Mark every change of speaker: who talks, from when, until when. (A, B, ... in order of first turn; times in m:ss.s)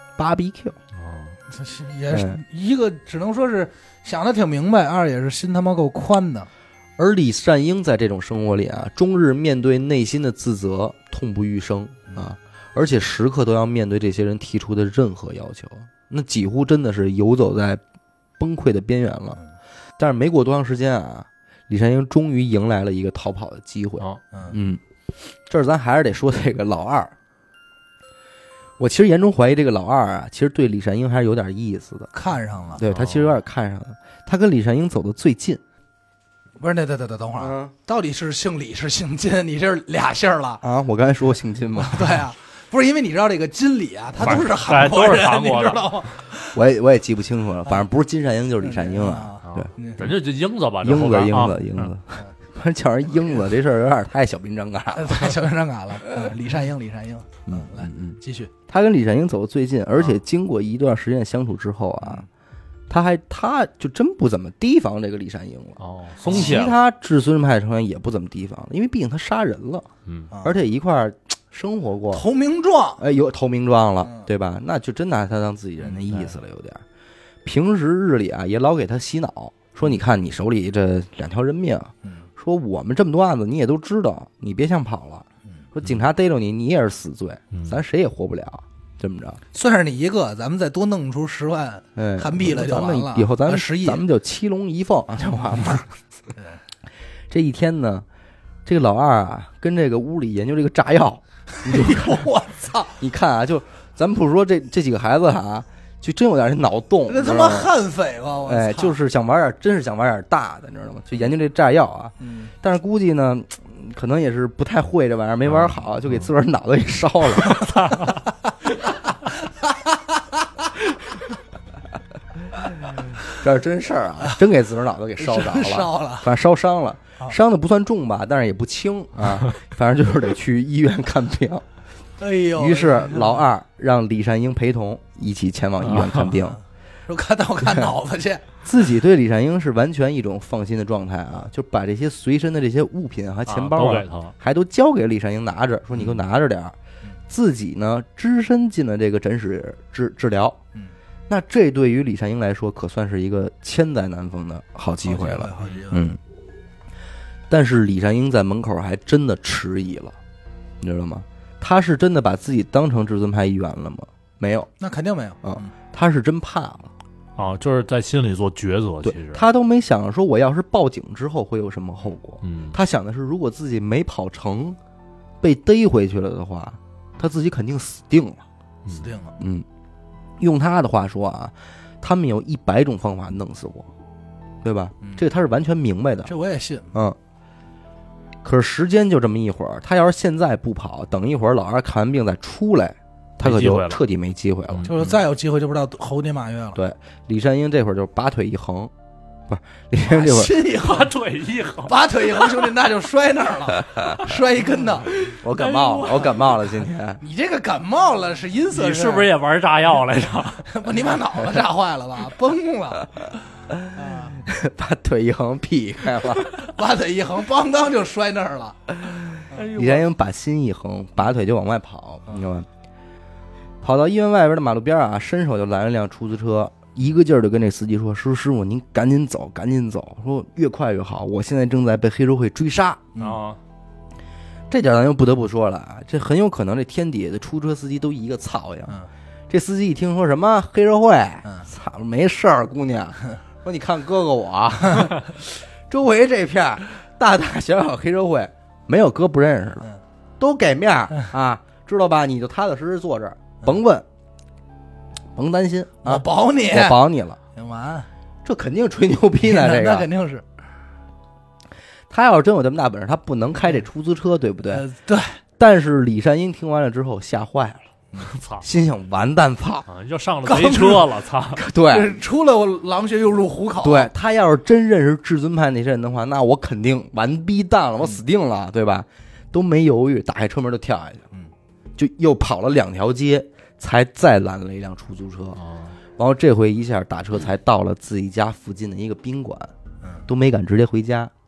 0:00.2-0:00.8 A
0:01.0-0:01.4 B
0:01.5-0:06.5 C
0:02.1-0:02.4 A
0:07.0-0:17.8 A
0:18.4-0:19.4 A
0:20.0-0:24.8 A
0:25.5-0:27.1 A
0:28.8-0:32.1 A
0:32.1-0:32.8 C
0:32.8-0:35.6 A
0:32.9-0:33.3 B
0:36.6-0:40.6 C
0:37.4-0:37.7 A
0:40.6-0:42.2 A
0:41.8-0:46.6 C
0:44.2-0:46.0 B
0:46.5-0:49.7 A
0:48.6-0:50.1 C
0:49.4-0:51.9 B
0:50.8-0:55.3 A
0:54.9-0:58.5 C
0:57.5-1:02.2 A
1:02.9-1:09.9 A
1:05.8-1:06.8 B
1:10.1-1:10.3 B
1:10.3-1:10.6 C
1:10.4-1:12.2 A
1:12.1-1:13.0 C
1:13.0-1:16.8 A
1:17.4-1:29.4 A
1:29.5-1:34.0 C
1:32.0-1:35.8 A
1:35.2-1:35.8 C
1:36.3-1:36.6 C
1:37.3-1:38.0 A
1:38.6-1:42.3 A
1:41.6-1:43.0 C
1:43.0-1:47.7 A
1:47.1-1:49.0 C
1:48.4-1:57.8 A
1:52.2-1:52.5 C
1:55.5-1:55.7 B
1:57.8-1:58.1 B
1:59.5-2:00.7 C
2:03.3-2:11.6 A
2:05.2-2:06.3 C
2:12.2-2:13.5 C
2:12.6-2:16.6 A
2:15.8-2:16.3 B
2:16.3-2:16.6 C
2:17.1-2:18.5 C
2:18.6-2:26.8 A
2:23.5-2:24.3 B
2:27.3-2:30.6 A
2:31.3-2:36.2 A
2:35.0-2:36.2 C
2:35.6-2:35.9 B
2:37.5-2:40.2 A
2:40.8-2:44.7 A
2:44.8-2:45.7 C
2:45.4-2:46.9 A
2:47.4-2:49.4 B
2:49.0-2:54.8 A
2:52.4-2:52.8 B
2:55.4-2:58.4 A
2:58.8-2:59.1 B
2:58.9-2:59.4 C
2:59.4-2:59.6 A
3:00.4-3:03.9 A
3:04.6-3:06.3 A
3:06.2-3:07.0 C
3:08.4-3:15.2 A
3:13.4-3:14.0 B
3:14.9-3:16.8 C
3:16.8-3:18.9 A
3:19.5-3:20.5 A
3:20.0-3:21.1 C
3:20.7-3:22.5 B
3:21.8-3:25.1 C
3:25.2-3:27.2 A
3:25.5-3:26.4 B
3:27.2-3:29.3 C
3:28.7-3:30.7 B
3:30.6-3:33.3 C
3:33.9-3:34.4 C
3:34.5-3:36.7 A
3:36.6-3:40.1 C
3:39.5-3:42.7 A
3:43.8-3:53.0 A
3:53.1-3:53.4 C
3:53.2-3:53.6 B
3:54.7-3:59.0 A
3:59.5-4:09.9 A
4:10.4-4:14.0 A
4:15.4-4:17.4 A
4:16.0-4:18.1 C
4:18.4-4:20.1 A
4:19.4-4:20.5 C
4:22.1-4:24.9 A
4:24.7-4:25.4 C
4:25.6-4:27.9 A
4:28.2-4:28.6 B
4:28.6-4:29.9 A
4:29.9-4:31.6 B
4:30.4-4:31.2 C
4:31.5-4:32.2 A
4:31.9-4:34.1 C
4:33.8-4:41.3 A
4:42.0-4:45.6 A
4:45.6-4:46.0 B
4:46.2-4:49.7 A
4:50.3-4:51.3 A